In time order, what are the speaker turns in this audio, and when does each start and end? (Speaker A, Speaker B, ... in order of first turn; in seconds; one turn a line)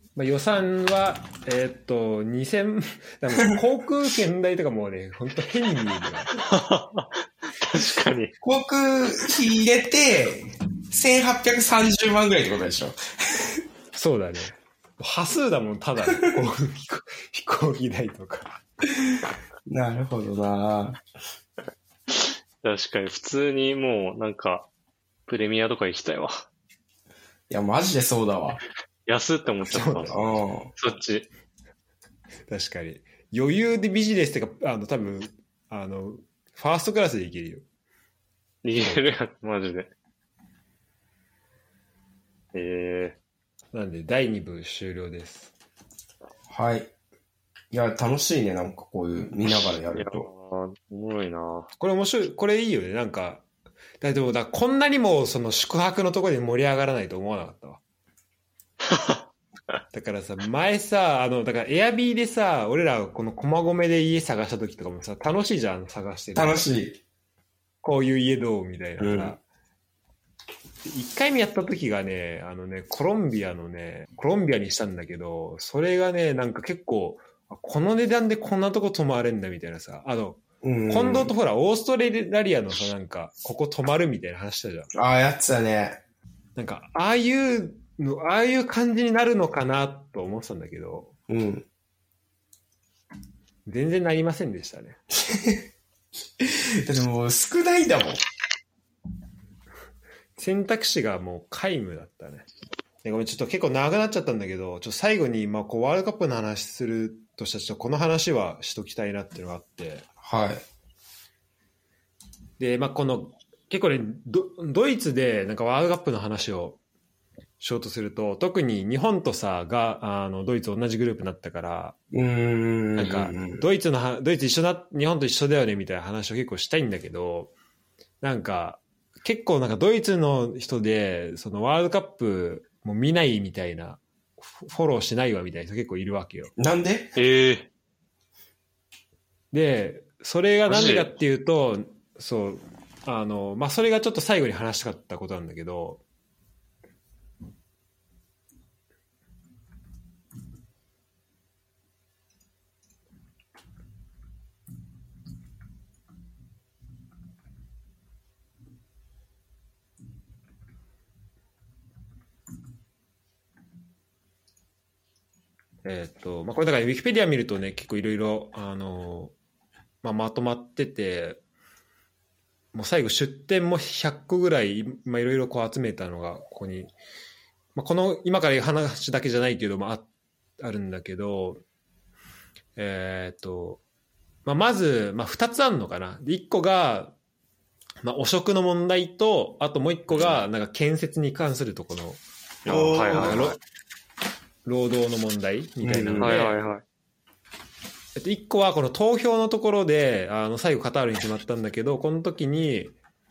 Speaker A: 0.1-6.3
Speaker B: 6.4-8.3
Speaker C: 8.4-13.6
Speaker A: 13.9-18.6
Speaker C: 19.7-21.0
Speaker B: 22.1-24.7
Speaker B: 25.3-26.4
Speaker C: 27.5-28.6
Speaker B: 29.1-30.2
Speaker A: 29.7-30.4
Speaker C: 30.1-30.7
Speaker B: 30.8-31.3
Speaker A: 32.5-37.6
Speaker B: 38.6-39.9
Speaker B: 42.5-43.2
Speaker A: 43.7-45.5
Speaker C: 46.5-46.9
Speaker C: 47.7-50.3
Speaker B: 49.9-51.7
Speaker A: 51.8-53.4
Speaker A: 54.0-57.8
Speaker B: 58.9-59.2
Speaker A: 59.9-66.7
Speaker C: 66.4-67.0
Speaker A: 67.8-69.4
Speaker C: 69.0-69.4
Speaker A: 70.8-84.9
Speaker C: 80.6-81.3
Speaker C: 84.9-86.0
Speaker A: 86.6-91.1
Speaker C: 91.3-91.7
Speaker A: 93.7-95.0
Speaker C: 95.3-95.6
Speaker C: 96.4-98.2
Speaker A: 100.4-102.5
Speaker A: 103.0-110.1
Speaker C: 110.2-110.6
Speaker A: 112.6-116.8
Speaker A: 117.6-122.0
Speaker C: 122.1-123.6
Speaker A: 123.0-127.5
Speaker A: 128.2-136.5
Speaker C: 136.6-137.1
Speaker B: 137.2-137.7
Speaker A: 139.5-146.0
Speaker B: 140.7-141.1
Speaker A: 165.8-169.3
Speaker A: 170.0-171.4
Speaker A: 172.7-176.9
Speaker A: 177.8-180.1
Speaker A: 180.6-181.6
Speaker A: 182.8-183.8
Speaker A: 184.4-187.2
Speaker A: 188.0-192.2
Speaker B: 190.1-190.4
Speaker B: 192.7-193.6
Speaker C: 192.7-193.5
Speaker A: 193.1-193.6
Speaker A: 194.7-196.6
Speaker C: 195.8-196.4
Speaker B: 196.2-196.8
Speaker A: 198.2-202.9